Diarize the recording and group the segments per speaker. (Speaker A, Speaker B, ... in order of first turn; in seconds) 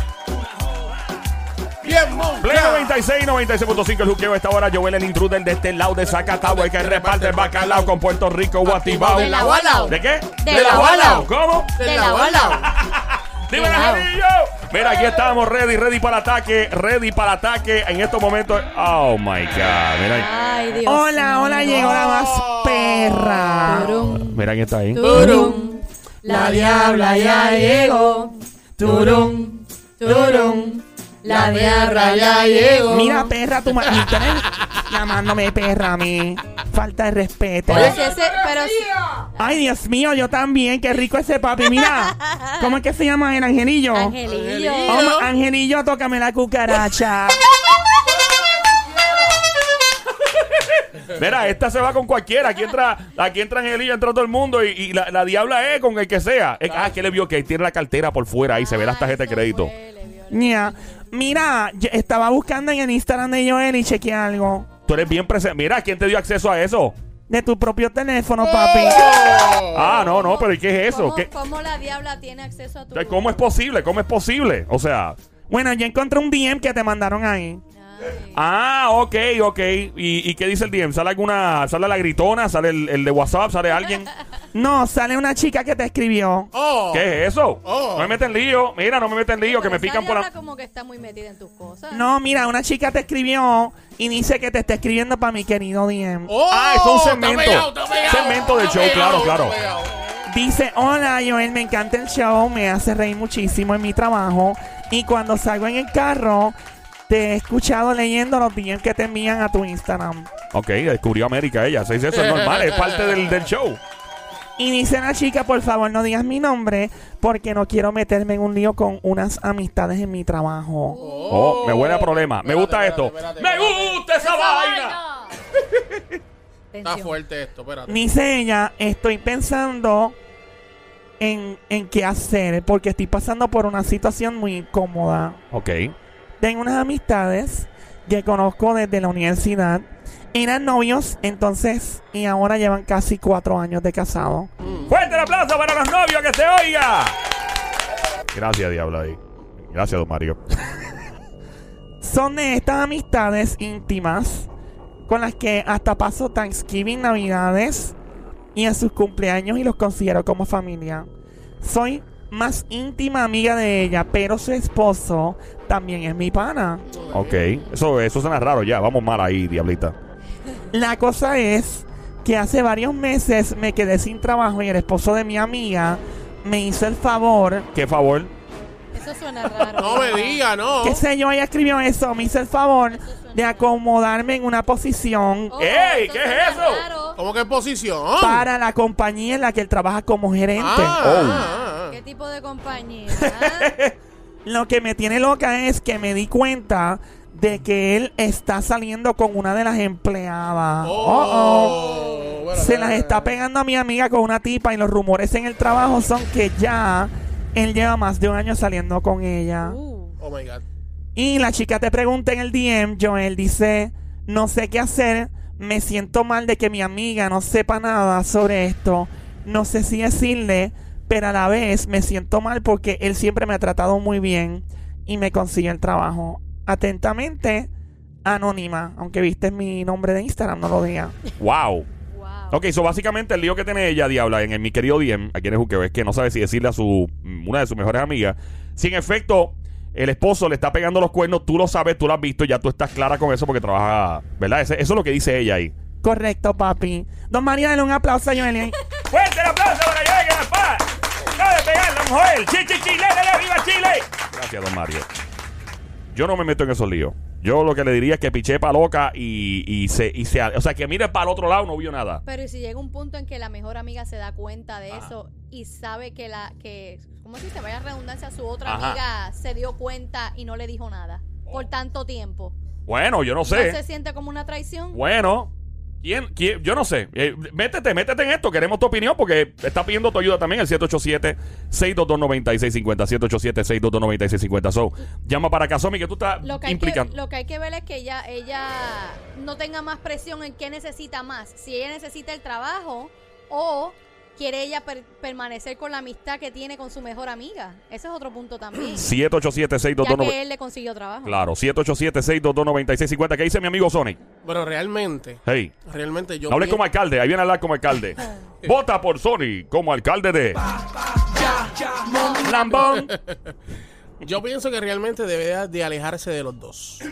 Speaker A: 0.3-1.0, 2.4-11.7, 12.6-20.2, 24.3-25.3, 51.0-59.7, 64.8-67.0, 69.4-71.3, 72.9-75.2, 78.3-84.1, 86.9-90.3, 96.5-99.6, 110.5-113.8, 121.3-125.0, 135.5-135.9, 144.9-147.1, 148.3-149.2, 149.7-150.4, 167.1-169.9, 177.7-178.3, 185.6-186.8, 191.0-191.4, 231.4-231.9, 232.5-245.7, 249.1-255.1, 256.1-262.2, 268.6-269.0, 272.9-273.8, 274.9-275.5, 276.0-287.1, 299.0-300.4, 301.2-304.2, 305.4-305.7, 306.5-310.6, 312.2-313.1
Speaker B: 1.8-3.0, 6.0-7.9, 8.6-12.7, 21.7-24.1, 25.0-25.6, 26.3-27.6, 28.8-29.4, 30.1-30.7, 31.2-33.1, 37.7-38.7, 44.2-45.3, 48.1-49.2, 56.7-56.9, 68.6-70.0, 86.5-87.1, 87.6-88.2, 96.3-100.0, 121.0-124.0, 126.8-128.0, 144.6-144.9, 179.8-181.0, 187.2-188.4, 190.6-191.9, 200.8-203.3, 210.2-210.6, 304.4-306.8, 312.9-313.4, 314.2-317.0
Speaker C: 9.0-12.6, 13.5-14.1, 20.1-22.0, 23.6-28.3, 29.2-29.4, 30.0-33.3, 37.7-38.9, 42.3-42.7, 43.9-45.1, 58.5-60.9, 70.8-73.4, 77.7-78.4, 89.4-92.0, 121.0-121.3, 124.2-125.3, 126.7-127.2, 178.9-180.4, 182.9-183.7, 185.5-187.2, 191.3-193.7, 209.6-210.2, 232.1-232.6, 262.2-272.5, 273.4-275.0, 286.4-299.1, 300.0-301.4, 312.1-312.5
Speaker D: 20.8-23.9, 27.6-28.2, 28.8-29.4, 32.9-38.0, 39.4-44.2, 44.9-47.4, 60.3-64.7, 67.3-69.3, 75.5-77.6, 84.5-86.5, 91.9-96.4, 100.3-106.5, 107.1-110.3, 114.6-121.0, 127.8-130.1, 131.2-135.4, 136.4-144.5, 152.0-154.5, 155.1-157.9, 158.5-161.1, 161.6-167.0, 170.7-177.7, 180.8-185.6, 188.2-191.2, 194.4-201.8, 202.5-209.8, 211.2-227.7, 228.2-231.2, 246.0-248.8